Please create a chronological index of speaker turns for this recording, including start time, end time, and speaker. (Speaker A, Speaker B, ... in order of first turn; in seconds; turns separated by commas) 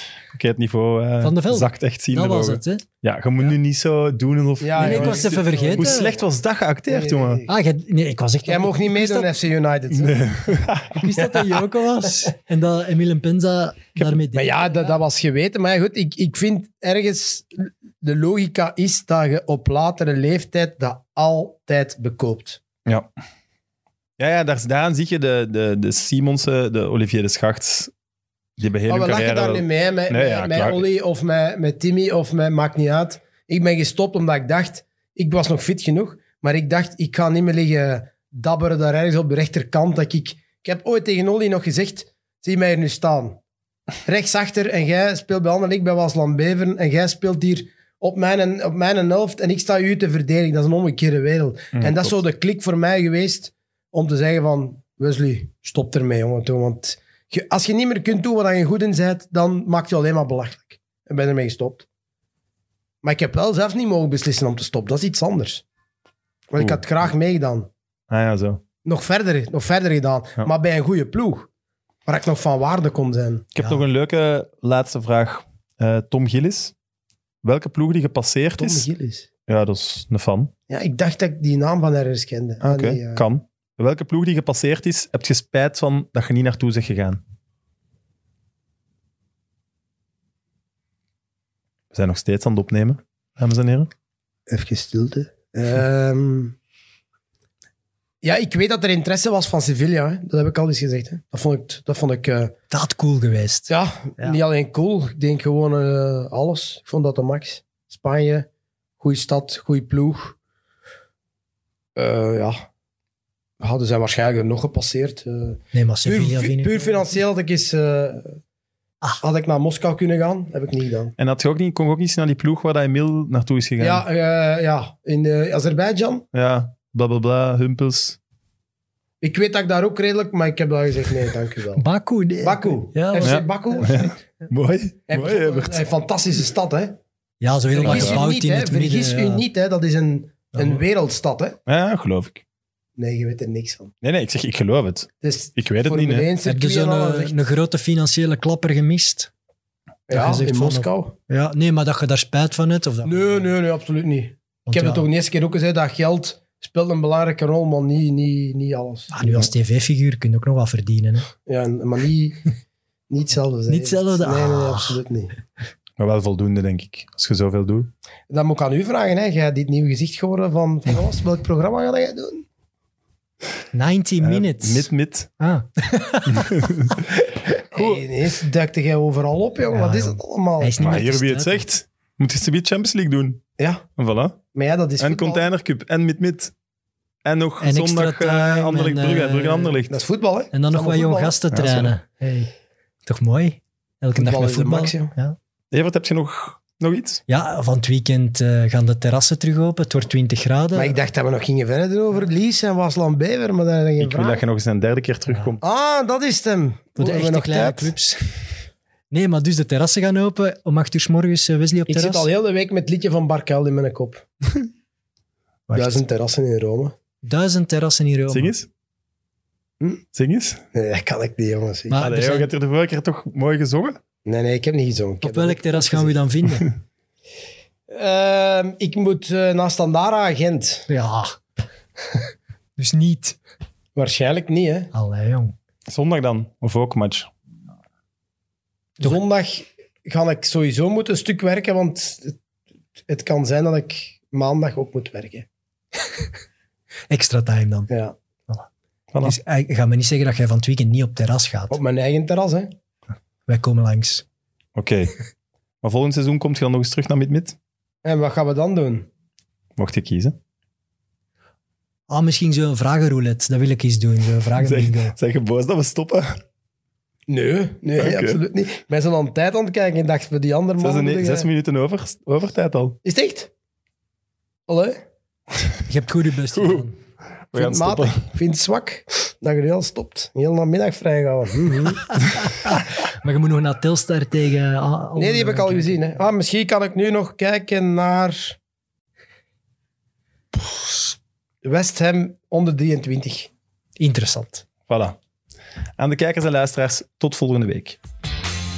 Speaker A: 0.3-7.4, Speaker B: 1.2-2.8, Speaker C: 4.6-6.2, Speaker B: 4.8-6.1, Speaker C: 6.9-7.6, Speaker B: 7.5-9.3, Speaker C: 8.4-10.3, Speaker A: 10.0-11.1, Speaker B: 10.9-14.8, Speaker C: 11.0-11.4, Speaker C: 14.3-22.6, Speaker A: 24.2-27.9, Speaker A: 28.6-30.9, Speaker C: 28.9-43.4, Speaker C: 44.0-61.9, Speaker A: 51.7-52.1, Speaker C: 63.0-65.6, Speaker C: 66.5-67.7, Speaker A: 68.1-68.6, Speaker C: 68.8-71.5, Speaker C: 72.0-73.5, Speaker A: 73.5-76.7, Speaker A: 77.4-78.9, Speaker C: 78.6-79.3, Speaker A: 79.5-80.5, Speaker C: 80.7-83.2, Speaker A: 82.6-87.2, Speaker A: 91.9-93.9, Speaker C: 94.5-96.5, Speaker C: 98.2-102.5, Speaker B: 102.7-104.4, Speaker C: 103.7-108.5, Speaker C: 109.0-110.3, Speaker C: 112.0-112.6, Speaker C: 113.6-118.4, Speaker B: 115.7-117.0, Speaker C: 119.2-121.1, Speaker A: 121.2-124.0, Speaker C: 123.8-126.2, Speaker A: 126.3-128.2, Speaker C: 129.2-131.8, Speaker B: 131.8-133.8, Speaker C: 132.4-134.1, Speaker A: 133.2-135.8, Speaker C: 135.1-137.0, Speaker B: 137.4-139.4, Speaker C: 137.7-141.6, Speaker A: 137.8-138.2, Speaker B: 140.6-140.8, Speaker A: 141.7-142.4, Speaker C: 143.0-143.9, Speaker A: 144.0-146.3, Speaker C: 145.2-147.3, Speaker B: 146.4-149.3, Speaker C: 150.1-151.1, Speaker B: 150.1-153.5, Speaker C: 153.0-159.4, Speaker B: 154.7-155.0, Speaker B: 159.1-161.3, Speaker C: 161.4-162.4, Speaker C: 163.1-165.3, Speaker B: 163.7-165.0, Speaker A: 166.0-167.9, Speaker C: 168.3-172.4, Speaker B: 173.7-174.9, Speaker A: 174.2-175.3, Speaker B: 175.4-176.9, Speaker A: 176.3-178.0, Speaker C: 177.7-180.8, Speaker B: 179.7-181.7, Speaker A: 180.8-183.4, Speaker C: 183.6-183.8, Speaker A: 184.0-184.4, Speaker C: 184.5-185.4, Speaker A: 185.0-186.5, Speaker A: 187.2-190.0, Speaker B: 187.6-189.8, Speaker C: 189.9-191.4, Speaker B: 190.5-192.5, Speaker A: 191.5-191.9, Speaker B: 193.1-195.3, Speaker C: 194.1-195.1, Speaker A: 195.7-197.2, Speaker B: 197.3-201.0, Speaker C: 200.7-204.4, Speaker A: 204.0-205.6, Speaker C: 205.6-207.9, Speaker B: 207.0-208.2, Speaker B: 209.1-212.3, Speaker C: 211.9-214.2, Speaker B: 215.7-216.0, Speaker C: 215.7-216.9, Speaker B: 217.2-218.5, Speaker A: 218.3-218.7, Speaker A: 220.1-220.6, Speaker C: 220.7-222.1, Speaker B: 221.9-222.5, Speaker A: 221.9-224.0, Speaker C: 224.2-226.2, Speaker B: 225.2-226.7, Speaker C: 227.9-230.9, Speaker B: 230.9-231.3, Speaker B: 232.8-233.4, Speaker C: 233.9-234.9, Speaker B: 234.9-235.5, Speaker A: 235.9-237.3, Speaker C: 239.0-242.3, Speaker C: 243.1-245.4, Speaker B: 247.1-247.9, Speaker C: 247.9-248.1, Speaker A: 249.1-249.4, Speaker B: 249.2-251.8, Speaker C: 251.7-252.7, Speaker B: 253.5-254.2, Speaker A: 254.8-255.2, Speaker A: 255.8-257.6, Speaker C: 258.0-259.1, Speaker A: 259.8-260.4, Speaker B: 262.1-265.1, Speaker A: 264.6-266.4, Speaker C: 267.3-271.5, Speaker A: 268.0-268.4, Speaker A: 270.8-273.0, Speaker C: 273.0-273.5, Speaker C: 274.7-275.0, Speaker B: 275.9-276.9, Speaker A: 276.5-276.9, Speaker A: 277.5-278.3, Speaker C: 277.5-282.2, Speaker B: 282.1-286.0, Speaker C: 285.2-288.6, Speaker C: 290.7-291.0, Speaker C: 291.6-293.5, Speaker B: 294.0-294.6, Speaker A: 294.9-295.2, Speaker A: 296.0-298.0